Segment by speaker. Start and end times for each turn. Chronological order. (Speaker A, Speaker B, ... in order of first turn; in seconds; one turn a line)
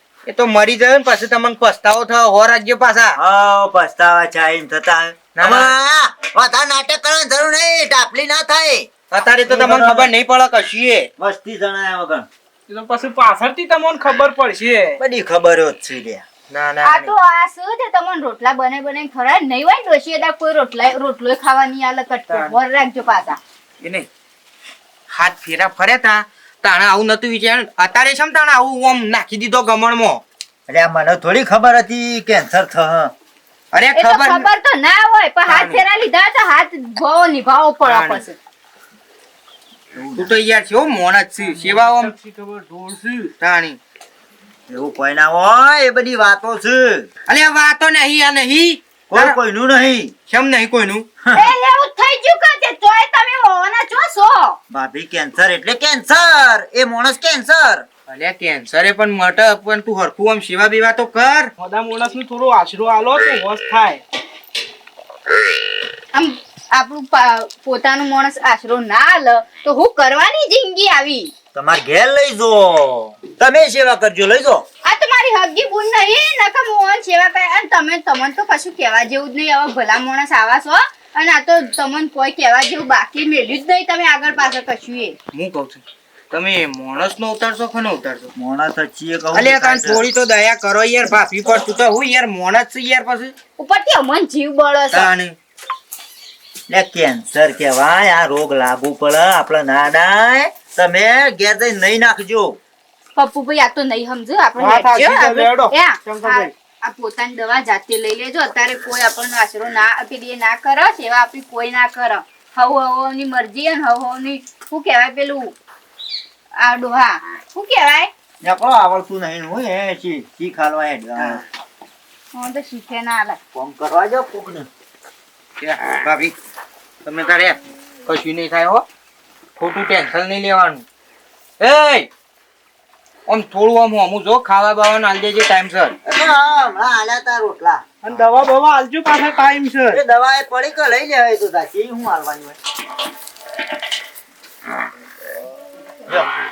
Speaker A: 0.2-3.2
Speaker B: 3.1-8.9
Speaker A: 5.3-5.7
Speaker A: 9.1-11.1
Speaker B: 9.4-10.1
Speaker B: 11.2-12.3
Speaker C: 12.7-15.0
Speaker B: 15.0-16.2
Speaker A: 16.5-17.1
Speaker D: 16.8-23.4
Speaker A: 22.3-22.5
Speaker A: 23.8-24.1
Speaker A: 25.1-30.2
Speaker B: 30.7-33.1
Speaker A: 33.7-34.5
Speaker D: 33.9-38.4
Speaker A: 35.5-35.8
Speaker A: 37.9-38.2
Speaker B: 39.9-40.3
Speaker A: 40.1-42.1
Speaker C: 41.4-43.3
Speaker A: 43.4-43.8
Speaker B: 44.7-47.1
Speaker A: 47.3-49.3
Speaker B: 49.1-50.1
Speaker A: 50.3-51.1
Speaker B: 51.2-51.5
Speaker D: 51.3-54.6
Speaker B: 54.7-57.9
Speaker A: 58.1-61.5
Speaker C: 61.6-64.0
Speaker D: 66.1-71.3
Speaker B: 71.5-74.7
Speaker D: 74.8-85.2
Speaker A: 85.3-88.3
Speaker B: 88.3-90.0
Speaker A: 89.3-93.3
Speaker D: 93.6-95.1
Speaker A: 94.9-95.3
Speaker B: 96.7-102.6
Speaker D: 103.2-115.5
Speaker C: 104.6-106.5
Speaker D: 116.6-118.1
Speaker B: 118.4-121.4
Speaker D: 122.3-123.4
Speaker B: 123.5-124.7
Speaker A: 125.6-126.3
Speaker A: 127.0-128.8
Speaker A: 129.6-130.8
Speaker A: 131.6-132.1
Speaker A: 133.2-135.9
Speaker B: 136.0-137.8
Speaker C: 138.0-140.0
Speaker B: 139.9-142.6